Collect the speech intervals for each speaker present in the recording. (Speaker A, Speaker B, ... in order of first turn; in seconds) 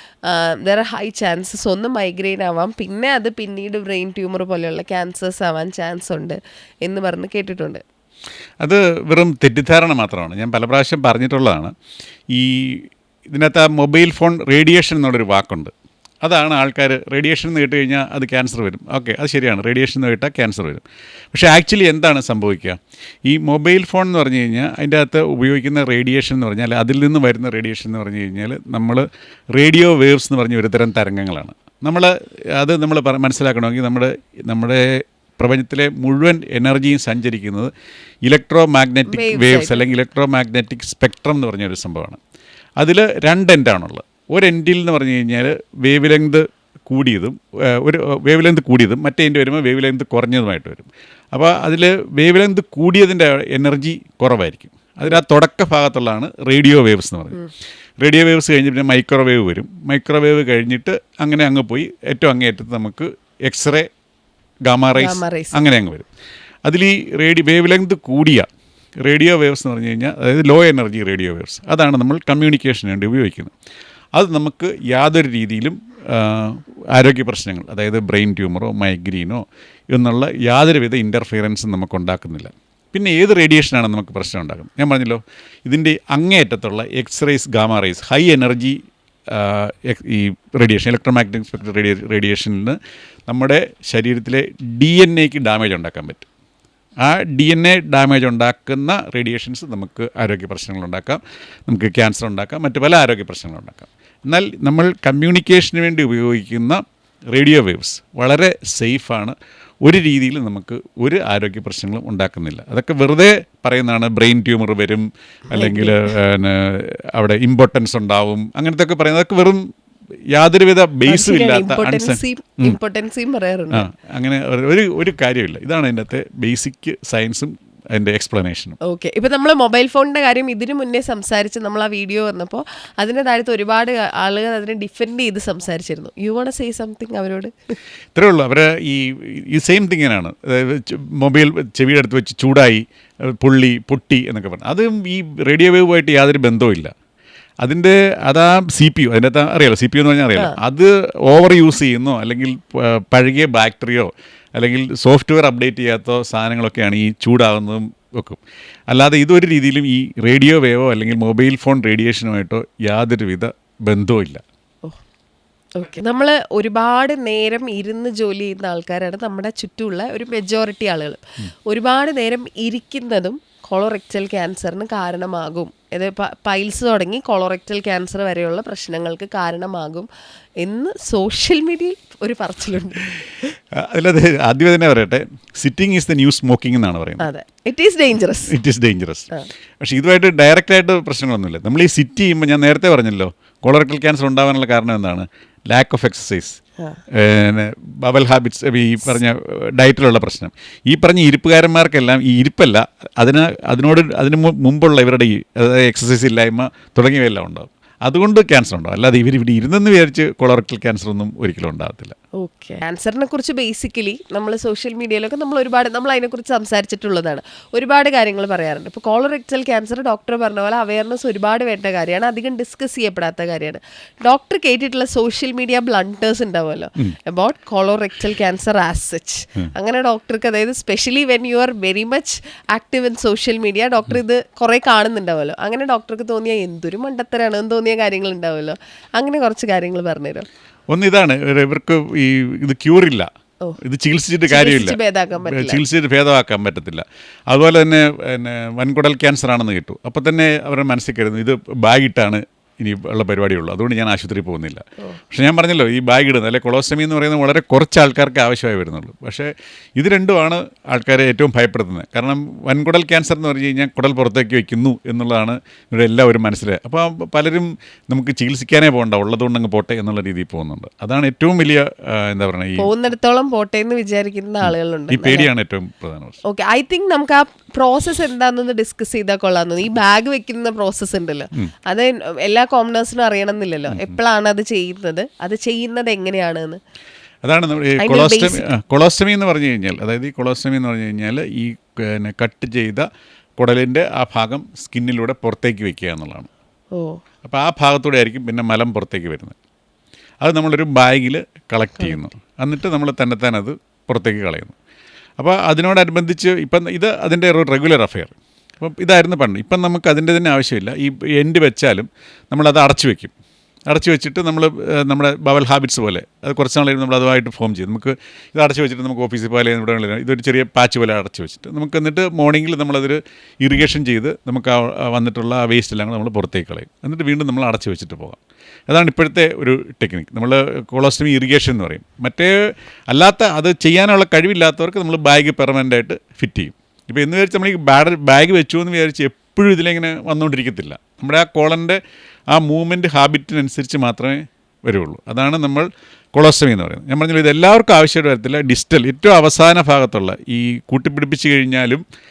Speaker A: 0.3-7.8, 39.1-39.9, 65.0-65.6, 115.5-116.1, 121.0-123.9, 128.8-137.5, 165.8-180.1, 180.6-183.5, 187.2-188.5, 212.4-240.4, 244.5-245.8, 272.8-275.5, 276.4-286.8, 288.0-288.7, 296.9-297.2
Speaker B: 8.6-11.7, 12.3-15.7, 16.2-37.7, 38.2-42.2, 42.8-57.4, 58.0-63.9, 64.7-66.1, 66.7-68.5, 69.0-73.5, 74.2-96.3, 97.0-119.6, 120.3-122.8, 123.7-128.8, 138.1-146.9, 147.6-158.4, 158.9-164.4, 183.7-187.3, 188.5-196.6, 197.1-212.2, 240.9-243.3, 243.8-272.9, 274.6-276.4, 283.9-284.2, 287.4-296.5, 297.4-299.6, 300.4-304.8, 305.4-313.3, 313.9-332.5, 333.1-342.0, 342.5-352.0